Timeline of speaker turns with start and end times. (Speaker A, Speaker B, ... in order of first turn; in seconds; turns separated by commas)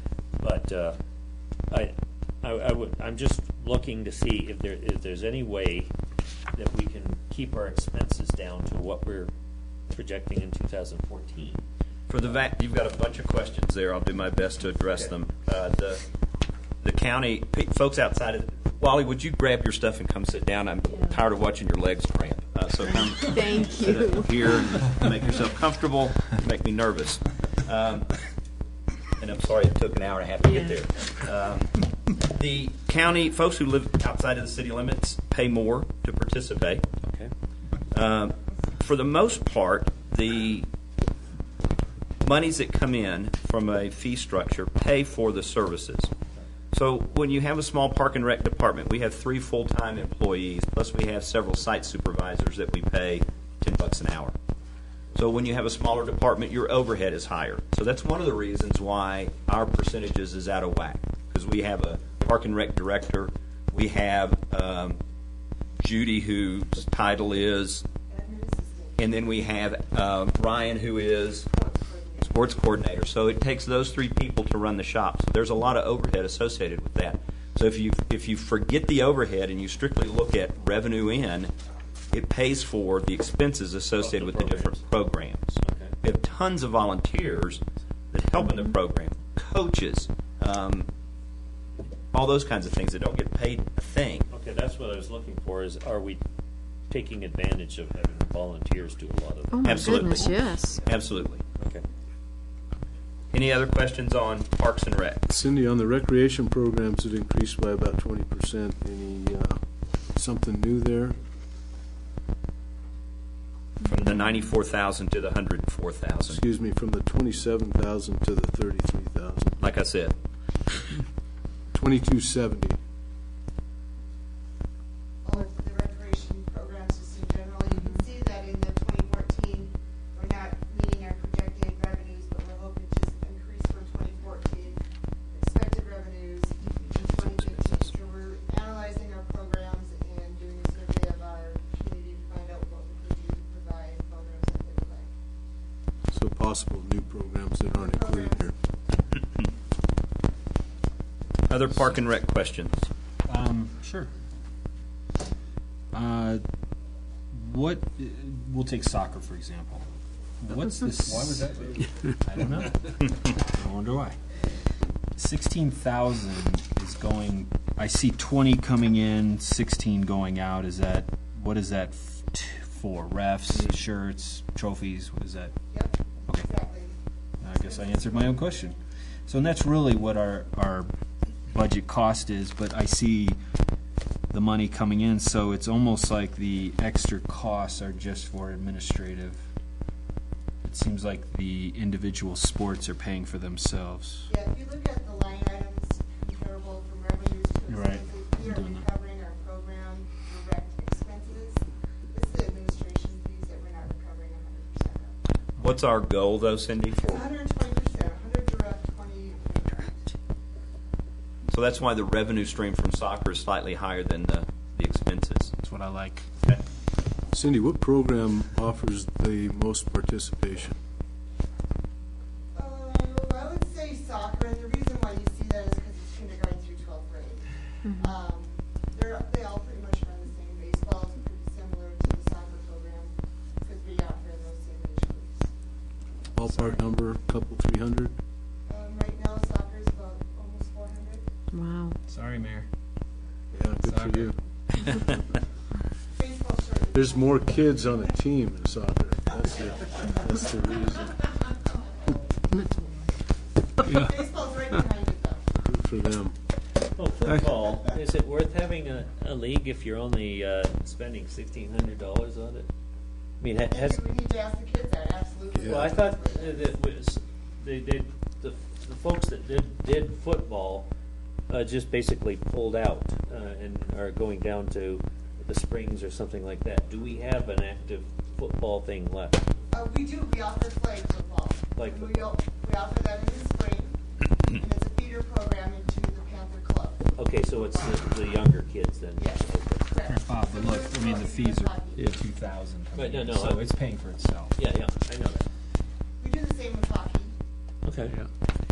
Speaker A: 0.4-1.0, Speaker A: 1.7-5.9, Speaker A: 6.5-9.3, Speaker A: 9.9-11.6, Speaker B: 12.1-16.0, Speaker B: 16.8-28.2, Speaker C: 23.0-24.7, Speaker B: 29.2-36.8, Speaker C: 30.4-30.7, Speaker A: 37.0-37.3, Speaker B: 37.9-40.7, Speaker B: 42.2-46.1, Speaker B: 46.7-54.3, Speaker B: 55.1-65.0, Speaker B: 65.8-67.8, Speaker D: 68.1-69.1, Speaker B: 69.0-71.5, Speaker D: 71.5-72.4, Speaker B: 72.2-81.5, Speaker B: 82.1-90.9, Speaker A: 84.0-84.8, Speaker A: 85.6-86.0, Speaker B: 92.1-94.3, Speaker A: 94.3-96.2, Speaker A: 96.9-100.5, Speaker C: 99.5-100.8, Speaker B: 99.6-101.4, Speaker A: 101.6-101.8, Speaker B: 103.3-105.3, Speaker E: 105.3-109.6, Speaker E: 110.2-111.2, Speaker B: 113.8-116.4, Speaker E: 116.2-119.5, Speaker B: 119.6-120.1, Speaker E: 121.7-122.8, Speaker D: 125.2-145.1, Speaker E: 146.1-148.5, Speaker D: 147.7-148.5, Speaker B: 151.5-152.8, Speaker F: 153.3-154.1, Speaker F: 155.9-156.4, Speaker F: 157.3-159.8, Speaker F: 160.4-164.2, Speaker F: 165.2-175.5, Speaker D: 175.7-176.9, Speaker F: 177.4-178.8, Speaker D: 177.5-178.4, Speaker F: 179.3-180.9, Speaker F: 181.5-183.4, Speaker F: 184.3-189.4, Speaker F: 190.6-194.3, Speaker D: 194.3-205.1, Speaker F: 197.7-198.8, Speaker B: 205.6-207.2, Speaker D: 207.0-210.1, Speaker B: 211.5-215.5, Speaker F: 215.6-216.3, Speaker E: 217.3-220.8, Speaker D: 222.5-227.4, Speaker D: 228.0-235.4, Speaker E: 236.3-238.1, Speaker D: 238.7-241.2, Speaker C: 241.5-241.9, Speaker F: 242.1-242.7, Speaker E: 243.5-244.3, Speaker F: 243.8-244.3, Speaker D: 246.2-248.0, Speaker E: 246.9-251.2, Speaker D: 253.8-255.4, Speaker E: 255.6-256.3, Speaker A: 256.9-262.7, Speaker A: 263.4-264.0, Speaker D: 263.7-266.6, Speaker E: 265.5-265.9, Speaker A: 265.6-270.9, Speaker A: 271.5-279.4, Speaker D: 279.7-287.1, Speaker A: 281.8-282.3, Speaker A: 287.1-289.8, Speaker D: 289.2-292.2, Speaker F: 290.1-294.5, Speaker A: 292.9-293.7, Speaker A: 294.5-295.4, Speaker D: 296.2-297.3, Speaker A: 297.8-298.2